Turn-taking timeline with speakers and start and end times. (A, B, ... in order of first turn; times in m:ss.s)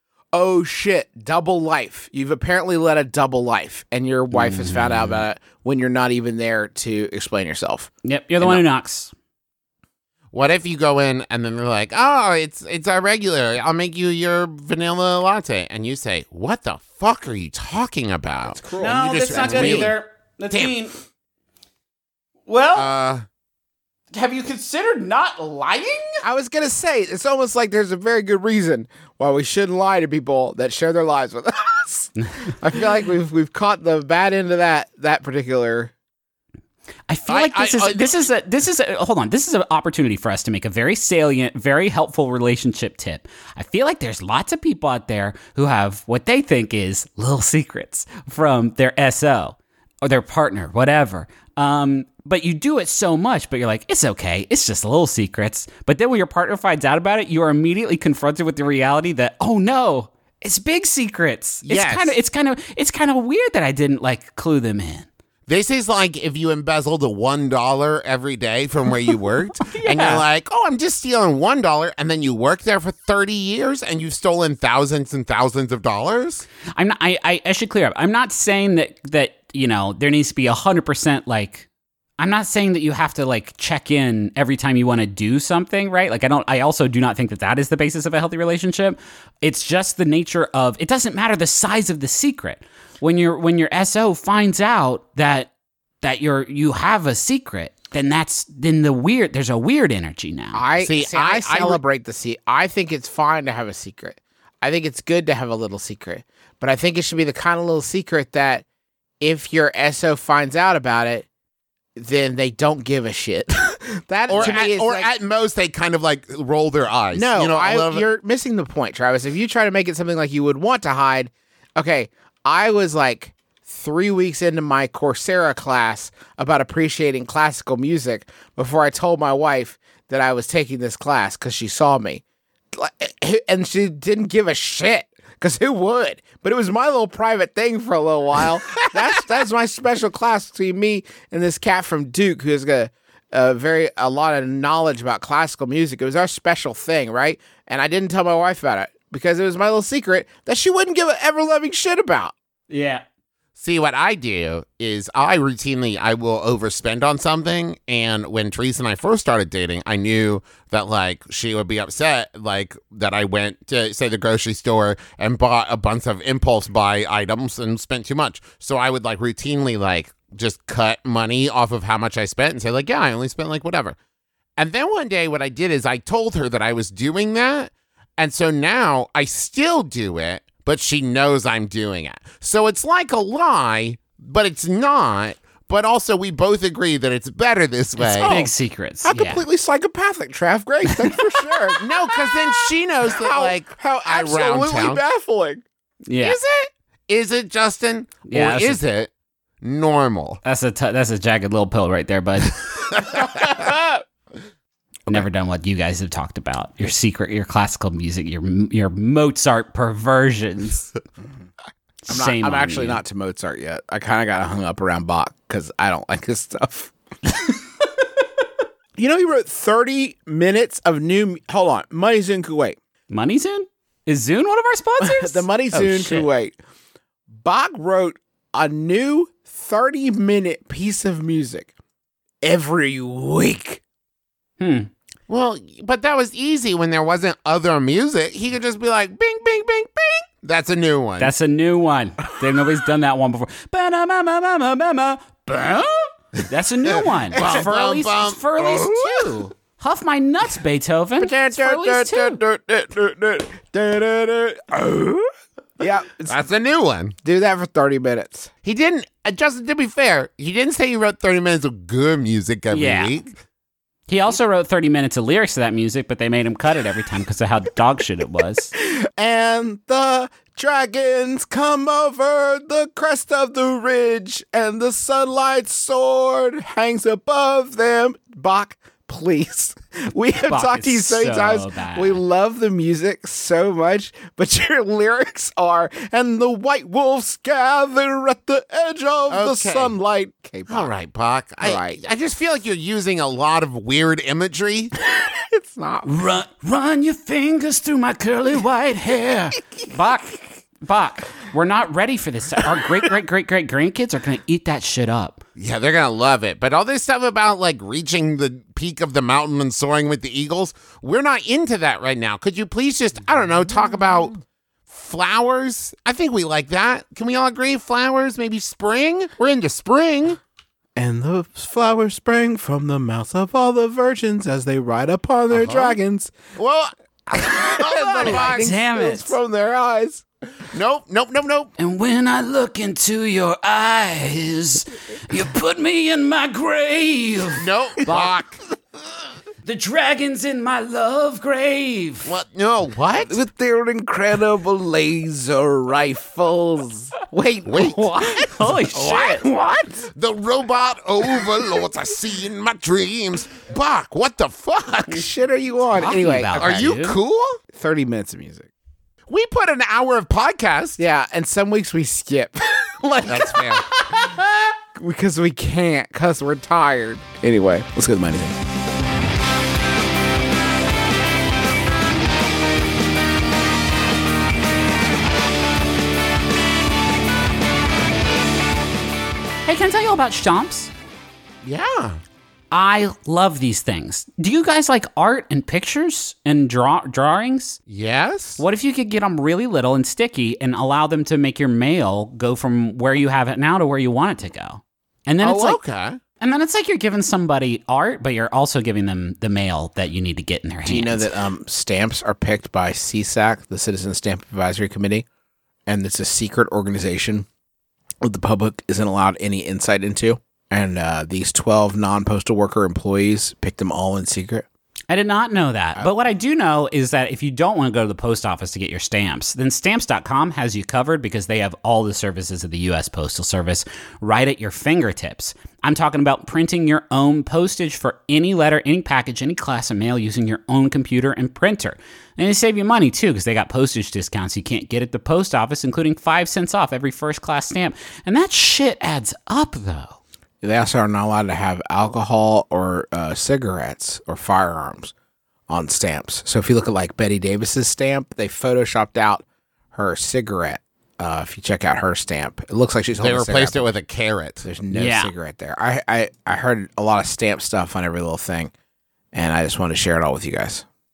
0:00.3-0:07.9 A
0:04.3-0:05.2 B
0:08.0-0:09.1 B
0:10.3-0:19.9 C
0:18.5-0:19.9 A
0:18.8-0:20.9 B
0:22.5-0:22.9 B
0:22.7-0:23.2 C
0:24.1-0:26.2 B
0:26.2-0:35.9 A
0:37.1-1:05.1 B
0:37.3-0:38.2 C
1:01.6-1:02.1 C
1:05.5-1:16.4 C
1:09.7-1:10.2 B
1:16.7-1:21.7 B
1:22.2-1:35.5 B
1:36.0-1:40.6 B
1:40.5-1:48.6 A
1:40.8-1:41.8 C
1:49.2-1:51.3 A
1:52.0-1:55.1 A
1:54.3-1:58.0 C
1:57.1-2:32.3 A
2:32.7-2:33.0 B
2:33.6-2:54.0 C
2:54.6-3:08.3 C
3:08.0-3:09.4 B
3:08.2-3:08.5 A
3:09.0-3:15.6 A
3:11.8-3:15.0 C
3:16.1-3:16.4 B
3:16.2-3:19.1 C
3:18.3-3:18.8 B
3:19.6-3:20.4 C
3:20.4-3:22.6 B
3:23.4-3:23.7 A
3:25.1-3:30.9 B
3:32.0-3:33.0 B
3:32.1-3:36.9 A
3:39.0-3:42.8 A
3:43.1-3:46.3 B
3:45.0-3:46.6 A
3:47.3-3:51.7 A
3:52.4-3:53.8 A
3:54.6-3:54.9 B
3:55.3-4:01.3 C
4:01.2-4:12.4 B
4:07.3-4:09.3 C
4:11.2-4:16.4 A
4:16.3-4:17.2 C
4:17.2-4:18.5 A
4:18.6-4:23.3 C
4:22.7-4:23.1 B
4:24.1-4:28.7 B
4:28.8-4:50.9 A
4:40.5-4:42.2 B
4:49.3-4:49.9 C
4:50.7-4:54.9 C
4:51.6-4:52.0 A
4:55.1-4:56.1 A
4:56.0-5:05.4 B
5:05.6-5:14.3 C
5:14.9-5:20.4 C
5:21.0-5:26.3 A
5:25.5-5:26.0 C
5:26.6-5:28.6 C
5:27.3-5:30.2 A
5:28.2-5:29.3 B
5:30.7-5:31.7 C
5:31.8-5:38.2 B
5:37.6-5:38.6 C
5:39.6-5:42.3 B
5:42.2-5:43.3 C
5:43.2-5:50.0 A
5:47.6-5:48.5 C
5:48.5-5:49.4 B
5:49.1-5:49.4 C
5:50.1-5:55.2 C
5:55.1-5:56.7 A
5:56.0-5:57.2 B
5:56.6-5:57.6 C
5:57.7-5:58.7 A
5:59.3-6:01.0 C
6:01.0-6:04.4 A
6:03.3-6:03.8 C
6:04.9-6:08.6 A
6:19.6-6:20.9 B
6:21.6-6:22.2 C
6:22.7-6:27.8 B
6:27.9-6:28.6 C
6:28.6-6:35.8 B
6:35.4-6:36.2 C
6:36.4-6:41.3 B
6:40.8-6:45.2 A
6:45.9-6:47.5 A
6:48.2-6:54.6 A
6:55.1-7:20.2 B
7:20.6-7:25.1 A
7:25.7-7:33.8 A
7:33.2-7:34.6 C
7:34.6-7:38.7 A
7:34.9-7:35.3 B
7:39.3-7:40.8 A